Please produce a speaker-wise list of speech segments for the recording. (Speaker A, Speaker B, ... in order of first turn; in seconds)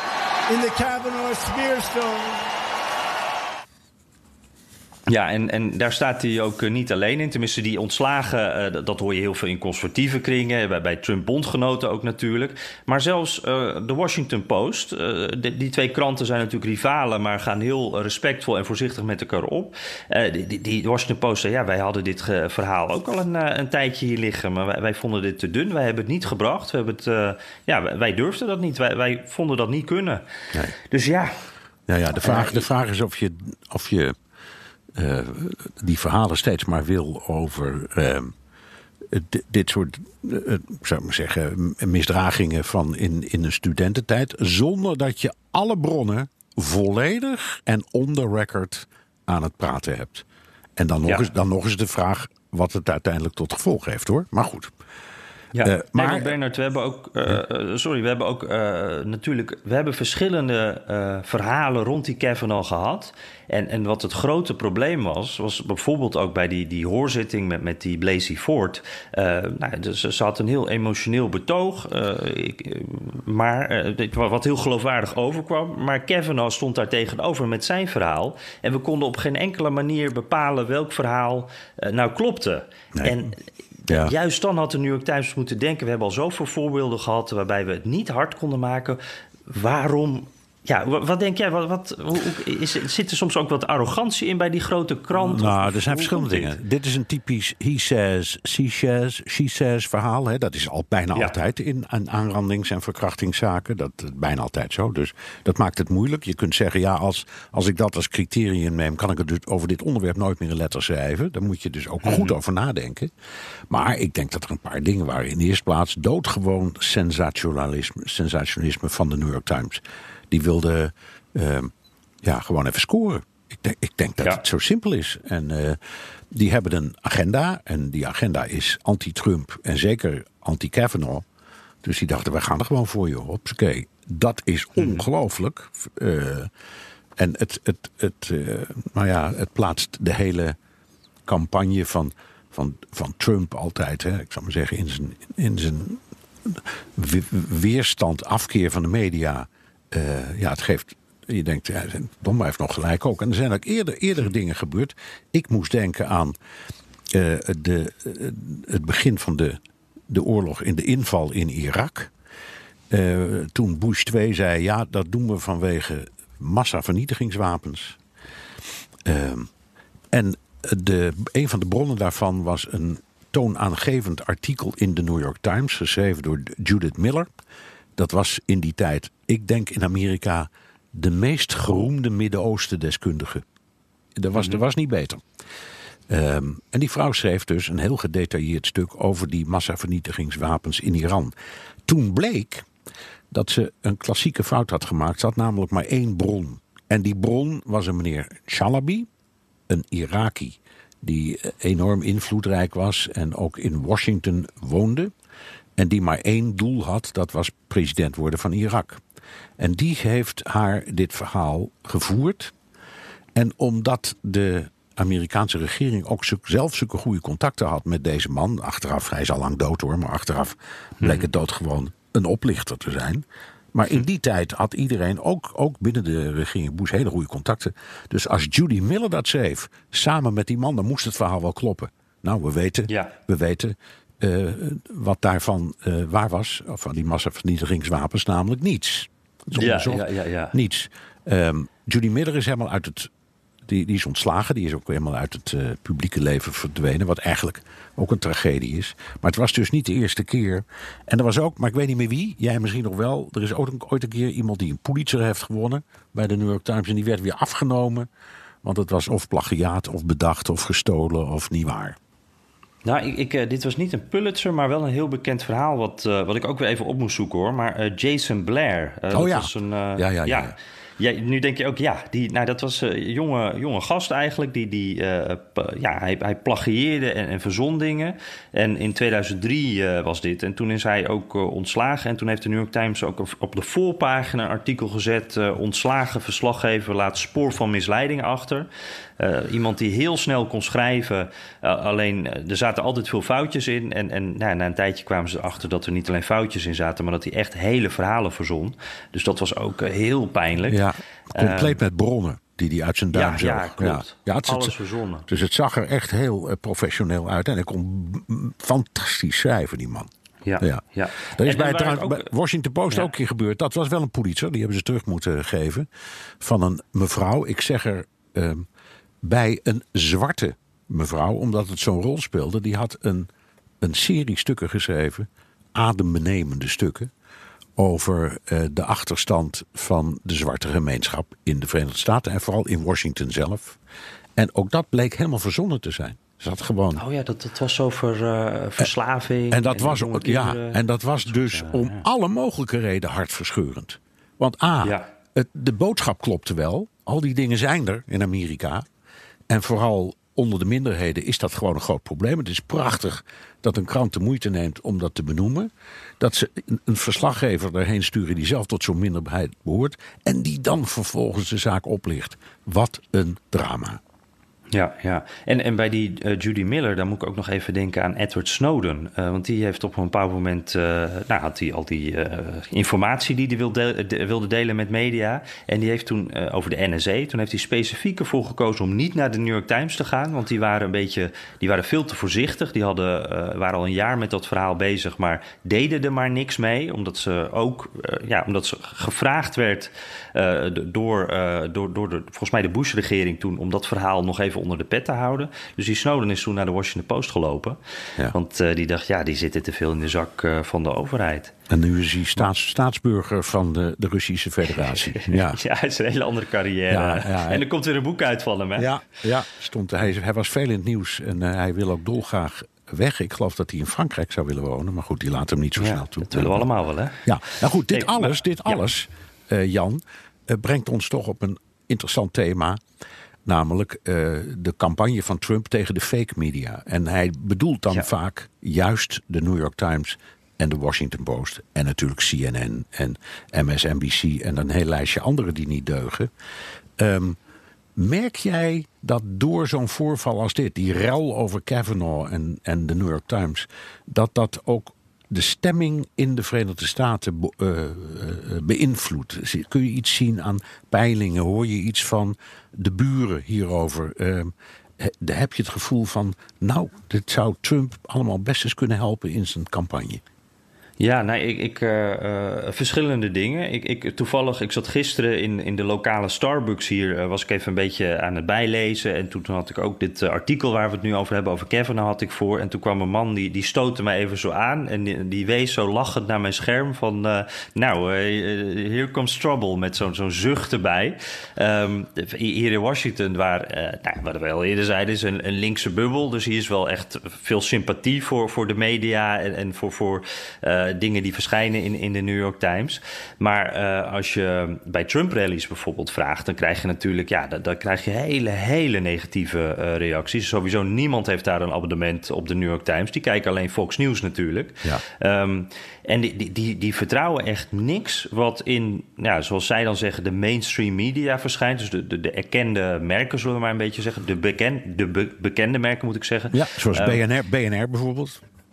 Speaker A: 0.5-2.4
Speaker B: 5.1-30.2, 30.8-31.3, 32.2-32.6, 55.5-83.3, 83.9-96.6, 112.0-112.3, 134.8-135.0, 184.3-184.6, 221.0-221.2, 239.5-240.5, 262.8-288.7, 289.2-300.8, 301.3-301.8, 303.1-305.3, 310.4-312.3, 336.9-340.8, 341.3-342.0, 364.7-397.8, 398.3-401.5, 404.8-408.9, 415.8-417.3, 417.9-418.8, 461.0-517.2
Speaker C: 31.9-34.1, 35.0-38.3, 39.1-50.2, 50.8-54.7, 55.6-56.3, 82.9-83.3, 83.9-84.1, 95.1-113.1, 113.7-121.7, 122.2-125.8, 126.3-131.2, 131.8-136.5, 137.2-140.6, 141.2-156.3, 157.1-159.6, 160.1-162.1, 162.9-168.0, 169.0-169.5, 170.1-177.3, 178.0-183.4, 184.2-185.2, 186.1-191.3, 191.9-192.7, 193.3-199.1, 199.7-205.1, 205.8-209.0, 209.6-212.5, 213.3-243.1, 243.7-258.1, 258.6-262.0, 269.1-270.5, 300.7-304.7, 305.3-310.1, 310.6-315.9, 316.4-318.6, 319.2-323.3, 323.8-327.1, 327.8-333.8, 334.4-337.0, 339.5-348.9, 349.5-364.0, 401.7-405.6, 406.9-407.6, 408.8-416.7, 417.2-422.8, 423.4-436.3, 437.0-437.4, 437.9-460.2, 516.5-518.4